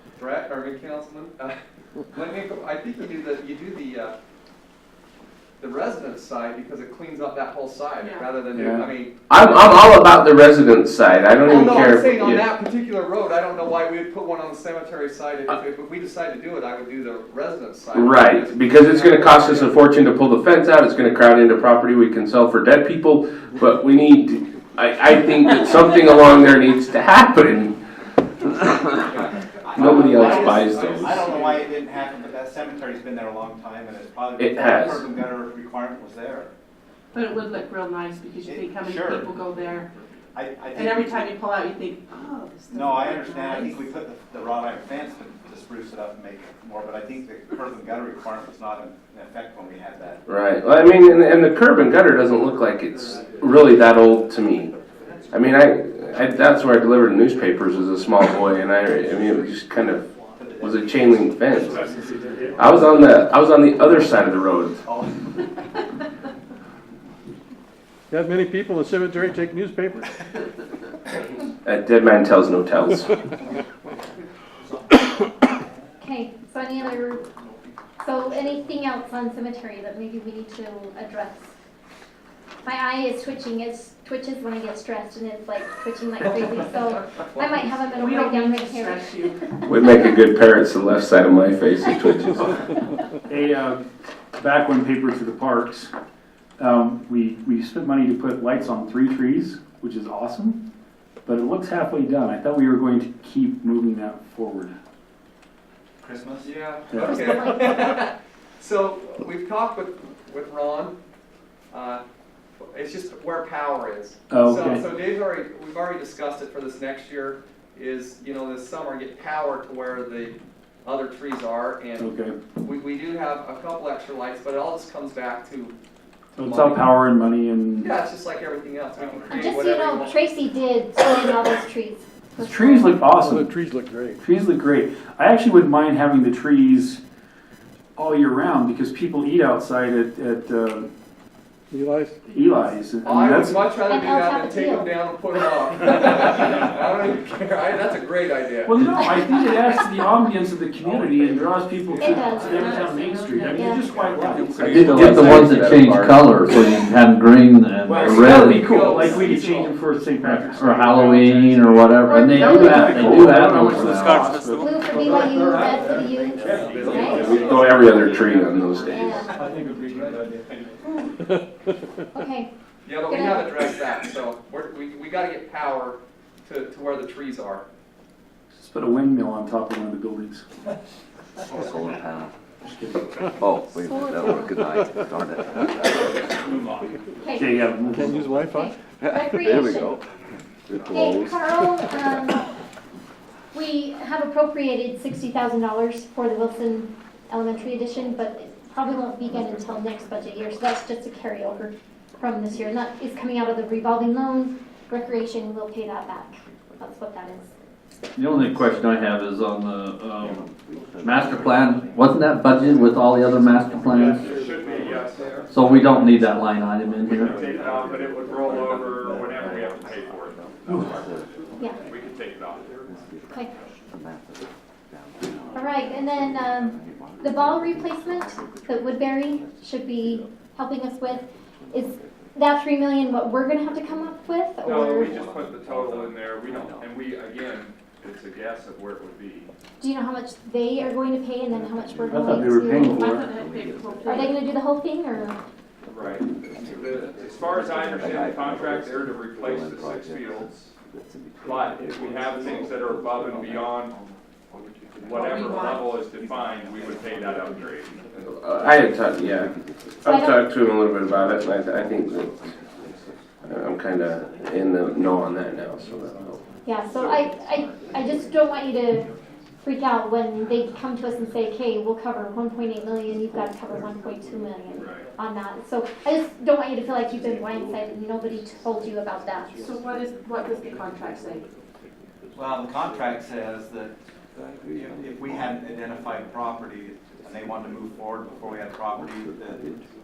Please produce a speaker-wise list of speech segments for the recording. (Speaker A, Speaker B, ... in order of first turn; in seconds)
Speaker A: 0.2-1.5, 2.1-4.1, 5.6-9.1, 11.4-19.7, 29.0-31.8, 106.4-110.9, 111.7-112.0, 112.7-122.1, 122.6-125.7, 126.4-126.9, 127.8-130.3, 143.0-148.8, 151.9-152.3, 157.9-159.8, 166.5-169.0, 172.8-177.6
Speaker B: 8.0-8.3, 37.1-39.9, 40.7-43.7, 88.0-89.4, 242.9-244.3, 255.2-255.8, 279.6-281.4
Speaker C: 8.5-8.8, 62.2-62.9, 93.3-95.9, 96.6-100.6, 101.2-104.7, 106.9-107.4, 114.3-114.8, 122.0-122.4, 126.3-128.0, 132.4-133.5, 134.2-137.0, 137.9-140.9, 142.3-143.7, 148.6-155.4, 157.9-166.0, 178.6-180.4, 182.6-183.1, 187.3-188.4, 242.1-243.3
Speaker D: 9.3-12.4, 17.9-27.7, 29.7-31.2, 34.4-35.0, 50.3-54.7, 55.3-60.0, 60.6-61.8, 62.6-64.8, 71.6-73.1, 89.6-92.6, 167.1-169.2, 258.3-262.4, 263.4-266.4
Speaker E: 29.7-36.5, 38.4-39.3, 40.3-41.3, 42.7-50.2, 60.4-61.1, 64.8-65.2, 106.0-106.5, 166.6-168.0, 169.2-170.4, 282.4-283.9, 284.7-289.7
Speaker F: 68.1-70.0, 133.2-134.2, 141.7-142.2, 187.9-188.7
Speaker G: 76.0-77.2, 78.0-81.5, 82.6-89.2, 129.3-133.0, 143.8-144.9, 152.0-152.6, 153.5-153.8, 164.6-167.3, 168.9-169.5, 172.1-172.5, 173.1-173.5, 187.2-187.6, 188.5-190.0, 190.9-192.4, 193.5-207.5, 225.5-235.2, 239.8-243.2, 244.1-245.4, 260.0-260.4, 266.6-269.1, 269.6-279.6
Speaker H: 154.5-158.9, 160.2-164.3, 208.2-210.4, 211.0-214.2, 215.5-217.4
Speaker I: 167.1-167.5, 214.1-215.3, 217.1-221.1, 221.8-222.8, 234.6-239.5, 245.9-250.7, 251.4-253.9, 255.0-258.2, 274.8-275.0